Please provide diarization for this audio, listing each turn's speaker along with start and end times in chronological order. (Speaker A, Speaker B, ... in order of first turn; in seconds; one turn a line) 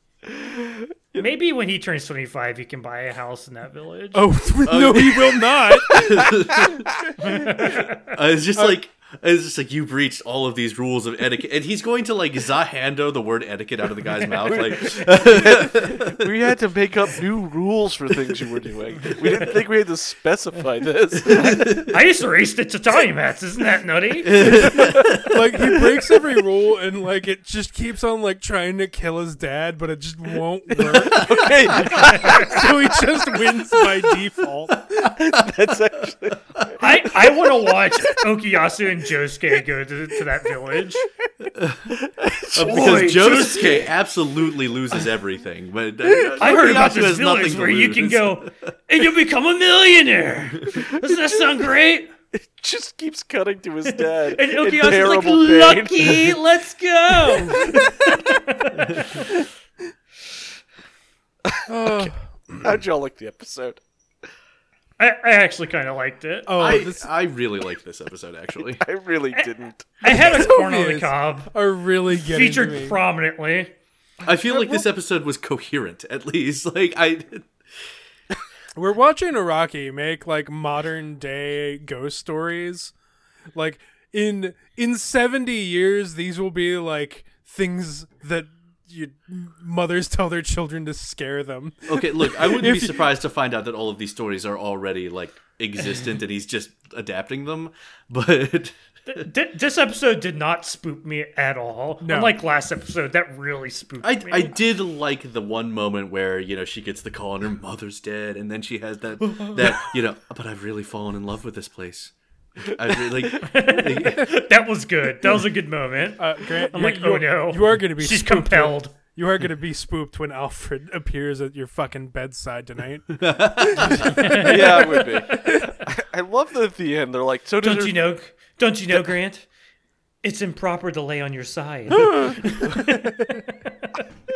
Speaker A: 0.3-1.3
Speaker B: 1.1-4.2
Speaker C: 4.1-6.5
Speaker D: 4.7-7.0
Speaker A: 6.0-6.7
Speaker B: 7.2-8.1
Speaker D: 7.6-16.3
Speaker A: 14.4-21.9
Speaker B: 21.2-24.6
Speaker D: 21.3-21.9
Speaker D: 24.2-25.9
Speaker C: 24.5-35.1
Speaker A: 24.7-25.1
Speaker A: 30.7-34.2
Speaker D: 31.0-32.4
Speaker B: 31.9-32.6
Speaker D: 34.9-35.4
Speaker A: 35.0-38.2
Speaker B: 36.8-41.0
Speaker D: 41.5-41.9
Speaker A: 41.9-43.8
Speaker D: 42.5-48.5
Speaker B: 42.6-43.9
Speaker B: 46.4-52.1
Speaker A: 51.2-51.5
Speaker A: 52.3-56.4
Speaker B: 53.9-59.3
Speaker A: 61.5-62.1
Speaker C: 61.7-62.7
Speaker A: 62.6-63.8
Speaker B: 65.0-66.8
Speaker C: 66.5-67.1
Speaker D: 66.6-68.8
Speaker A: 68.8-70.0
Speaker B: 69.3-71.5
Speaker C: 70.0-73.0
Speaker B: 72.1-73.7
Speaker D: 74.2-77.5
Speaker A: 74.5-74.7
Speaker C: 78.8-82.9
Speaker C: 83.5-93.0
Speaker D: 91.9-99.3
Speaker B: 99.1-104.6
Speaker C: 102.0-102.4
Speaker D: 104.0-114.4
Speaker B: 109.3-109.8
Speaker B: 113.4-119.0
Speaker C: 116.2-125.8
Speaker D: 123.1-124.5
Speaker B: 124.0-125.7
Speaker A: 124.2-128.1
Speaker B: 127.6-129.4
Speaker B: 130.2-133.7